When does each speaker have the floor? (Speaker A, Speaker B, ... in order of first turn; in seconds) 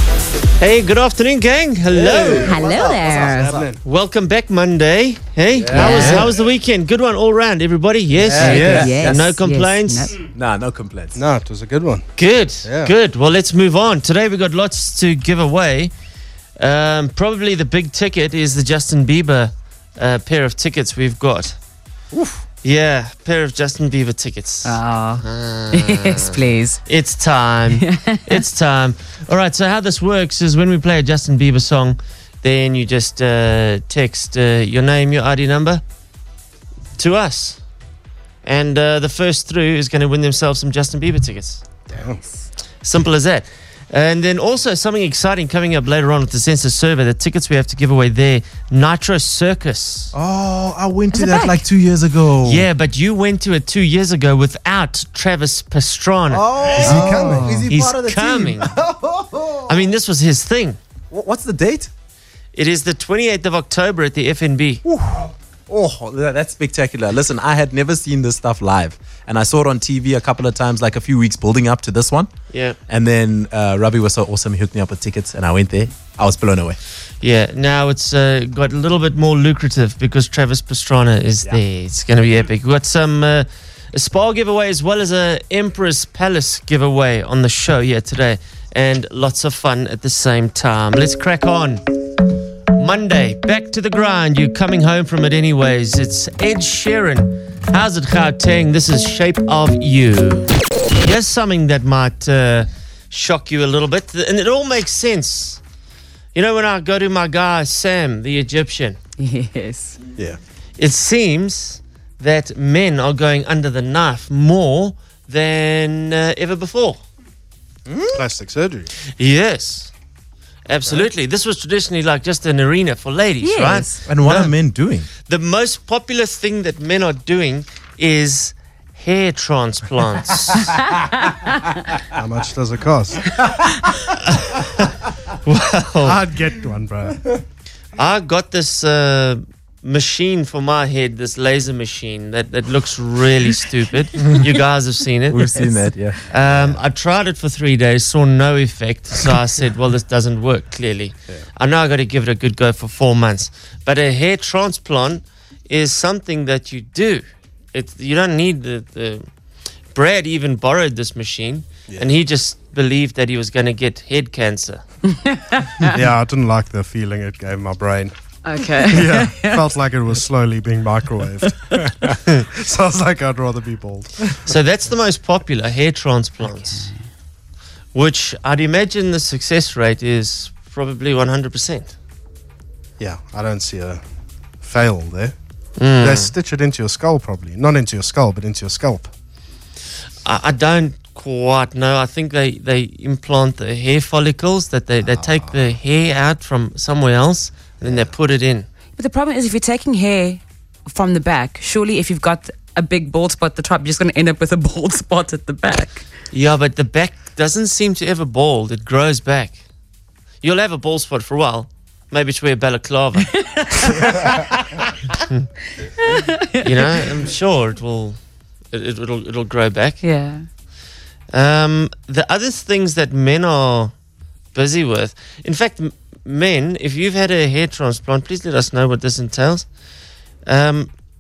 Speaker A: 0.6-2.5, 3.8-10.1, 12.2-15.9, 16.6-21.6, 22.6-35.8, 37.0-37.6, 38.4-41.6, 42.8-50.1, 52.4-56.9, 57.7-58.7, 59.7-60.8, 62.5-64.8, 72.5-72.8, 77.2-91.8, 92.8-105.6, 106.3-109.0, 110.8-117.0, 119.2-119.9, 120.7-124.5, 125.2-130.7, 134.2-134.9, 135.4-136.2, 138.0-145.5, 146.3-159.3, 159.9-164.8, 174.5-176.9, 177.9-181.9, 185.8-186.3, 190.2-198.7, 206.3-209.6, 210.4-213.4, 216.6-218.2, 218.7-220.0, 221.3-223.9, 224.5-229.7, 230.4-230.9
Speaker B: 1.9-3.0, 5.5-6.3, 8.2-9.3, 10.3-11.2, 50.1-52.7, 56.3-59.7, 61.1-61.9, 64.8-72.3, 72.9-76.8, 117.9-118.2, 124.1-125.1, 145.3-146.8
Speaker C: 2.5-3.6, 5.7-6.3, 8.4-10.2, 24.6-26.8, 27.8-28.4, 51.1-51.6, 57.2-57.6, 109.2-110.0, 123.4-124.0, 165.1-165.9, 168.4-169.7, 176.4-177.0, 199.0-206.1, 213.4-214.5, 216.0-216.7, 220.0-220.5
Speaker D: 2.6-3.8, 11.2-12.1, 12.6-12.9, 41.9-42.2, 56.8-57.6, 118.1-118.9, 132.2-133.3, 136.0-137.2, 165.9-168.2, 168.8-171.8, 172.4-174.1, 183.0-184.0, 184.6-185.3, 186.0-189.1, 197.8-198.1